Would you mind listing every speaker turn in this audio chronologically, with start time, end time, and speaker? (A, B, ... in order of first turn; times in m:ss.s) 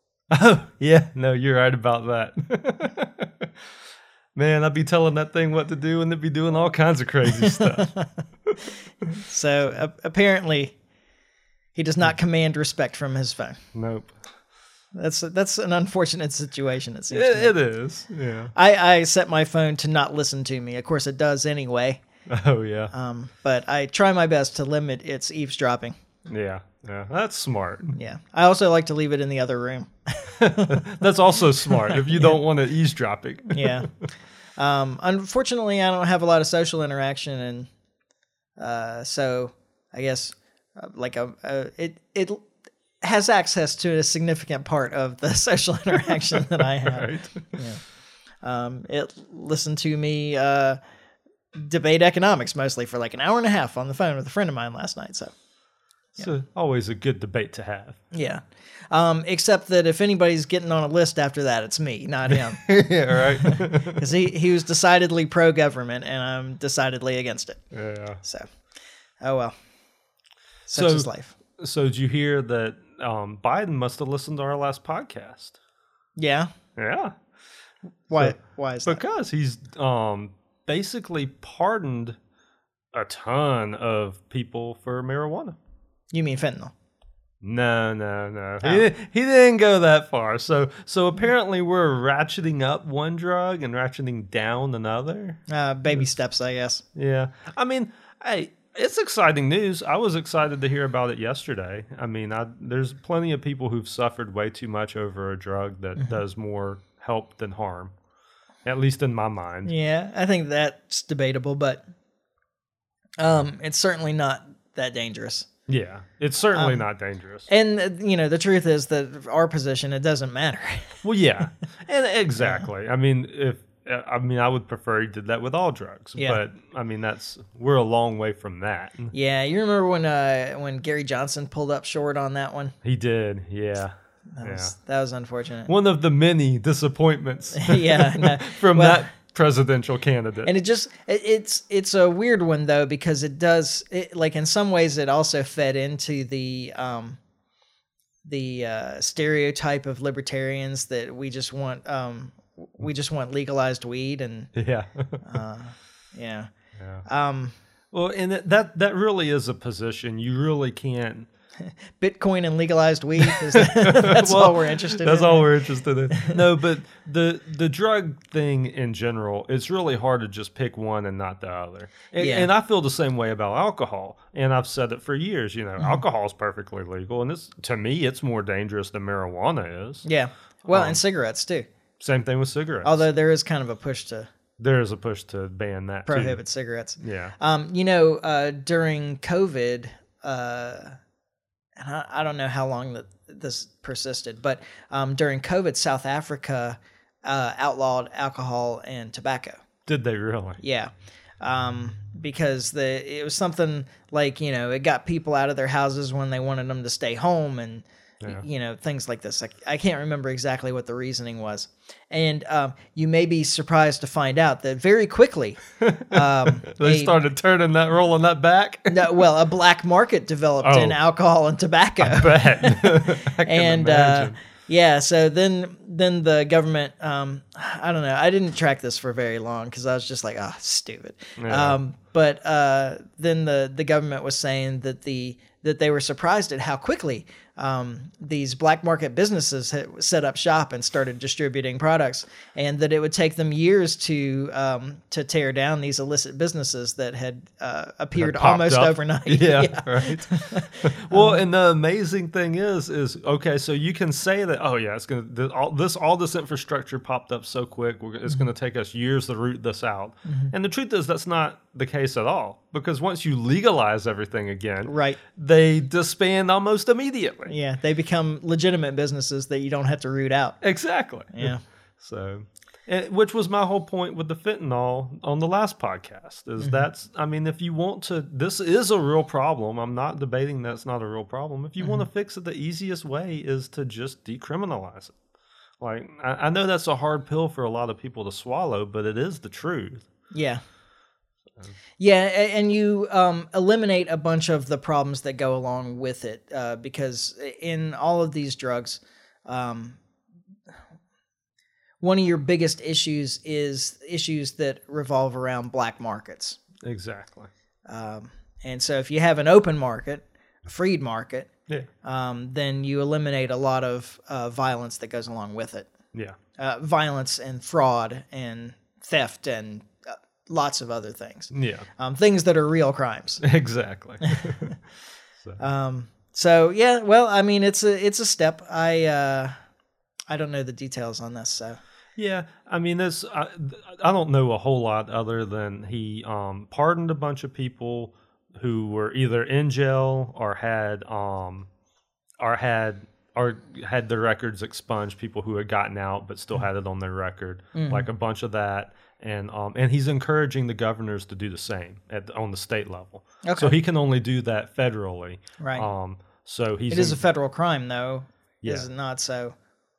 0:00.3-0:03.5 A
0:04.3-0:08.6 A
0:07.4-0:08.1 B
0:09.2-0:10.8 B
0:11.7-0:13.6 B
0:13.7-0:14.1 A
0:14.9-0:17.5 B
0:17.1-0:18.5 A
0:18.5-0:22.0 B
0:22.3-0:22.9 A
0:22.9-0:26.0 B
0:26.3-0:28.0 A
0:27.9-0:30.8 B
0:30.4-0:33.9 A
0:31.8-0:32.3 B
0:33.5-0:33.9 B
0:34.6-0:37.7 B
0:38.6-0:42.4 B
0:43.0-0:47.8 B
0:46.9-0:47.4 A
0:48.4-0:50.8 B
0:51.5-0:55.3 B
0:56.2-0:58.0 A
0:58.1-1:07.6 B
1:02.3-1:04.0 A
1:07.7-1:08.2 A
1:08.2-1:08.5 B
1:09.2-1:09.5 B
1:10.7-1:11.3 B
1:10.7-1:15.6 A
1:16.2-1:16.5 B
1:16.8-1:17.1 A
1:18.1-1:19.0 B
1:18.1-1:22.2 A
1:22.9-1:25.6 A
1:26.1-1:26.7 B
1:27.4-1:35.4 A
1:35.5-1:36.8 B
1:36.9-1:47.9 A
1:48.6-1:49.7 A
1:49.6-1:51.8 B
1:53.2-1:55.5 B
1:55.7-1:57.5 A
1:56.5-1:56.8 B
1:57.5-2:01.0 B
2:01.0-2:09.1 A
2:02.4-2:02.6 B
2:09.1-2:12.7 B
2:12.8-2:14.7 A
2:14.4-2:15.7 B
2:15.7-2:20.5 A
2:17.6-2:19.1 B
2:20.4-2:27.2 B
2:28.2-2:34.5 B
2:34.5-2:35.2 A
2:35.2-2:36.5 B
2:36.8-2:37.0 A
2:37.0-2:37.5 B
2:37.9-2:41.3 A
2:41.6-2:45.5 B
2:43.5-3:00.0 A
2:52.2-2:52.5 B
3:00.0-3:01.7 B
3:00.7-3:01.0 A
3:02.0-3:03.0 A
3:02.8-3:04.3 B
3:04.6-3:06.4 A
3:06.1-3:11.0 B
3:07.0-3:07.3 A
3:11.8-3:19.6 B
3:19.9-3:20.6 A
3:20.6-3:37.2 B
3:35.8-3:39.2 A
3:38.9-4:11.4 B
3:40.6-3:41.0 A
3:42.0-3:44.4 A
3:51.4-3:51.8 A
4:08.2-4:27.5 A
4:20.3-4:20.5 B
4:24.9-4:25.2 B
4:27.5-4:30.6 B
4:30.6-4:45.1 A
4:31.3-4:31.6 B
4:36.6-4:36.9 B
4:41.8-4:42.1 B
4:45.8-4:50.0 A
4:50.3-4:50.6 B
4:52.0-5:00.0 B
5:02.0-5:06.6 B
5:06.8-5:07.5 A
5:07.9-5:11.5 B
5:12.0-5:15.9 B
5:16.6-5:23.4 B
5:21.5-5:21.9 A
5:23.4-5:24.7 A
5:24.2-5:24.7 B
5:25.6-5:29.5 B
5:30.3-5:31.8 B
5:32.2-5:41.7 A
5:42.4-5:57.2 A
5:47.7-5:48.1 B
5:53.4-5:53.7 B
5:55.6-5:55.9 B
5:56.9-5:59.5 B
5:58.6-5:58.9 A